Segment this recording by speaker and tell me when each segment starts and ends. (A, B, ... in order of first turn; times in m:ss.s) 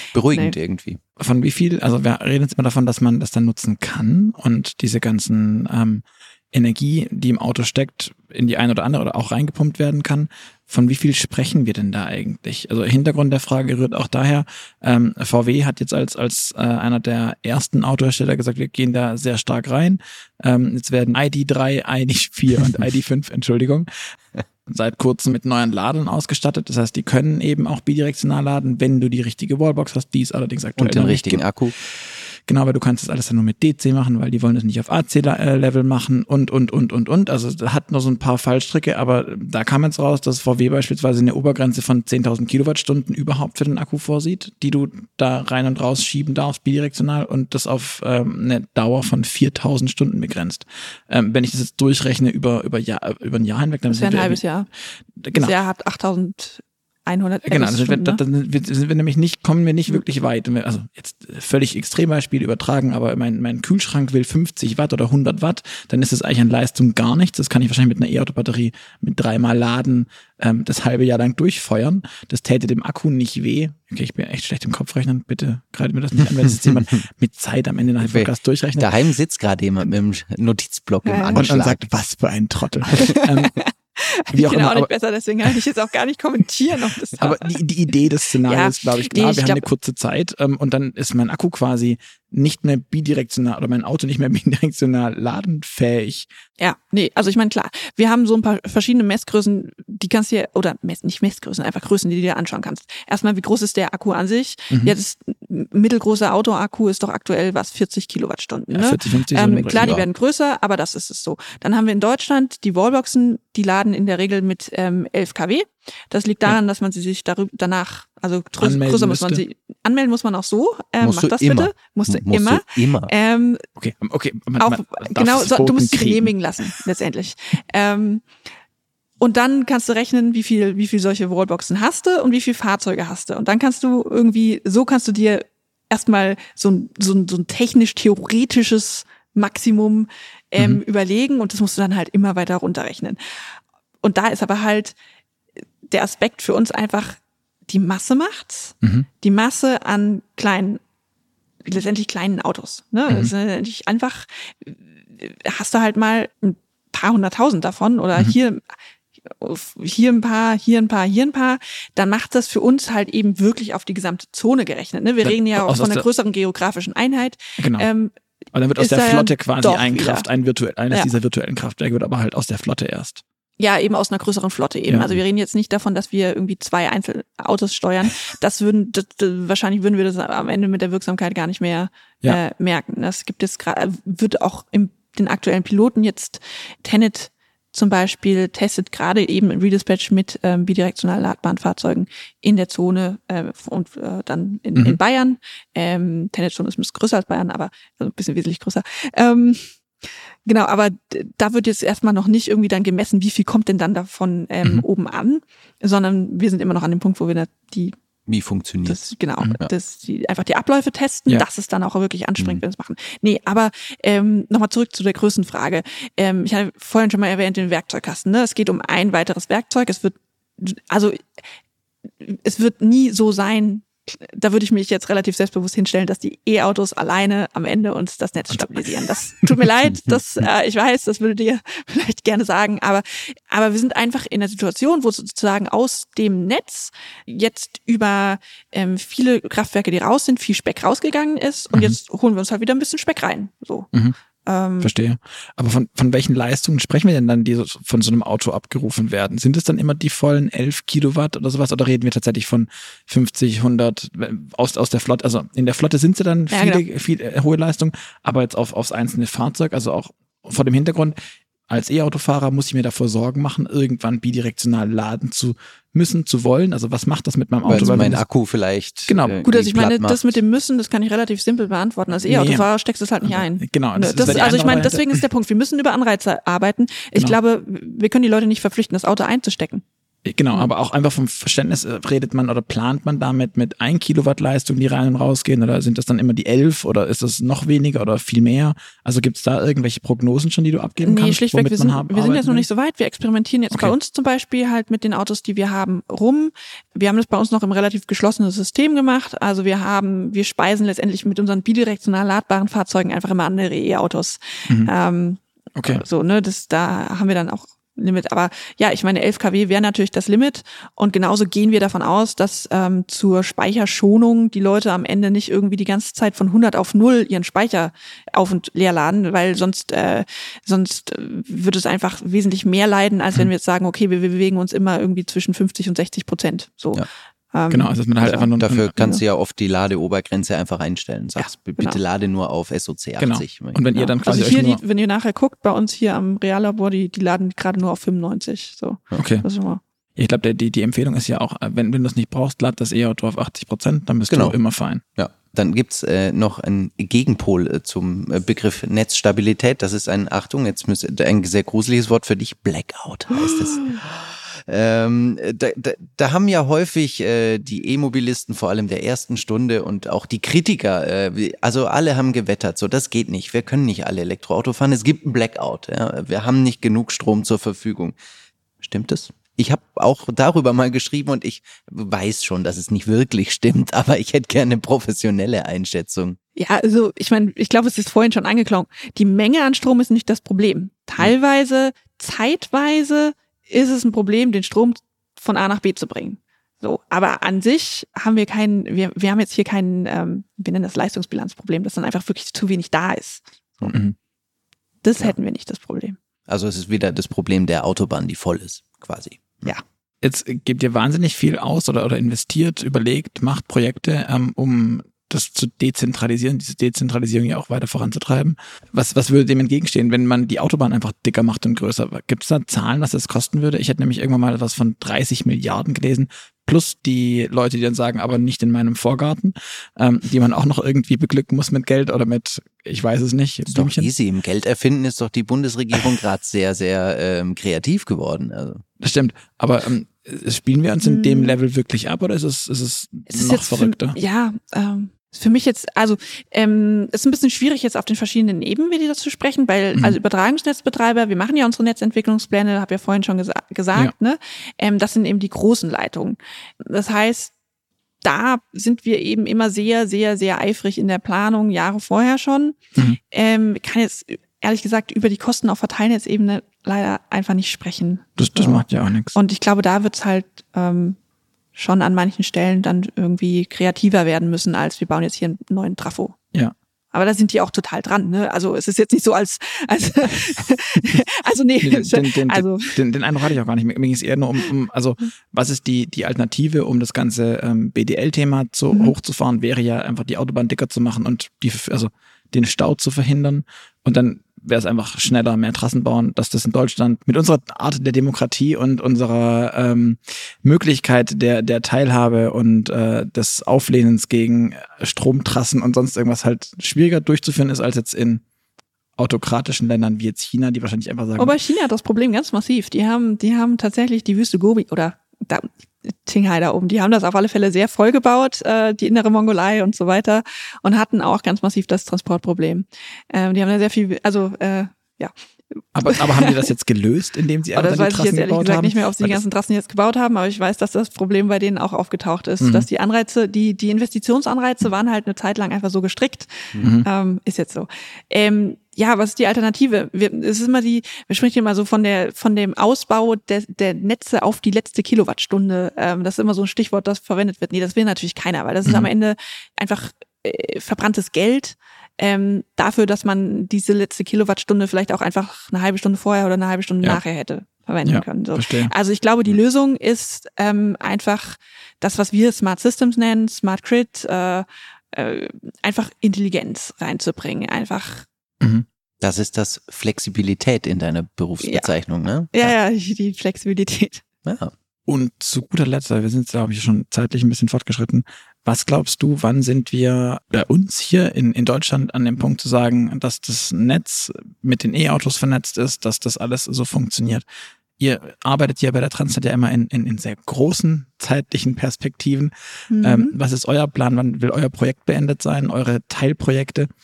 0:00.1-0:01.0 A
0:01.2-0:24.2 B
0:24.7-0:54.4 B
0:30.8-0:31.7 A
0:53.9-0:54.7 C
0:55.2-0:55.6 B
0:55.3-0:58.2 C
0:57.4-1:18.9 B
1:16.4-1:17.0 A
1:18.0-1:21.8 A
1:21.0-1:21.4 C
1:21.3-1:23.6 B
1:22.9-1:27.6 C
1:24.3-1:24.9 B
1:27.2-1:36.3 B
1:28.4-1:29.6 C
1:36.6-2:03.6 C
1:44.7-1:44.9 B
1:48.7-1:50.0 B
1:58.6-1:59.4 B
2:01.0-2:03.1 A
2:03.8-2:06.8 B
2:04.6-2:08.2 C
2:09.2-2:23.4 C
2:20.6-2:20.8 B
2:24.0-2:24.9 C
2:25.8-2:30.8 C
2:28.8-2:29.1 B
2:31.6-2:38.6 C
2:39.2-2:48.1 C
2:45.2-2:46.0 B
2:47.6-2:47.9 B
2:48.5-2:53.2 B
2:48.8-2:50.3 C
2:53.6-3:27.9 C
2:54.9-2:55.2 B
3:28.3-3:29.0 A
3:28.8-3:41.3 C
3:42.2-4:03.9 C
3:48.5-3:48.9 B
3:49.4-3:49.6 B
4:01.7-4:02.0 B
4:04.4-4:04.9 C
4:04.8-4:21.2 B
4:16.5-4:16.8 C
4:21.7-4:28.2 B
4:27.6-4:30.4 A
4:27.7-4:28.1 C
4:29.1-4:29.4 B
4:29.4-4:39.8 C
4:32.3-4:32.7 B
4:33.2-4:35.0 B
4:40.2-4:52.7 B
4:51.0-5:29.2 C
5:05.8-5:06.0 B
5:27.7-5:29.0 B
5:28.2-5:33.9 A
5:31.4-5:32.0 C
5:33.2-5:34.8 B
5:34.0-5:39.8 C
5:39.2-5:39.4 B
5:40.2-5:45.0 B
5:44.3-5:44.6 A
5:45.2-6:08.2 A
6:08.8-6:16.4 A
6:16.6-6:33.4 C
6:33.9-6:34.2 B
6:35.0-6:36.2 C
6:36.5-6:39.7 A
6:40.2-7:04.1 B
7:03.7-7:08.8 A
7:09.0-7:14.2 B
7:11.0-7:11.6 C
7:13.3-7:27.5 C
7:28.2-7:32.8 C
7:33.3-7:41.2 C
7:38.4-7:39.4 B
7:41.7-7:46.4 C
7:47.1-7:53.0 C
7:51.8-8:18.4 B
8:19.2-8:21.6 B
8:21.4-8:35.3 C
8:35.9-8:39.4 B
8:36.1-8:36.7 C
8:37.7-9:18.2 C
8:42.6-8:42.9 B
8:46.8-8:47.1 B
9:08.0-9:08.9 B
9:18.6-9:18.8 B
9:19.2-9:22.7 A
9:21.6-9:21.9 C
9:22.5-9:24.2 C
9:24.4-9:24.7 A
9:25.1-9:37.4 B
9:38.0-9:46.9 B
9:42.9-9:43.3 C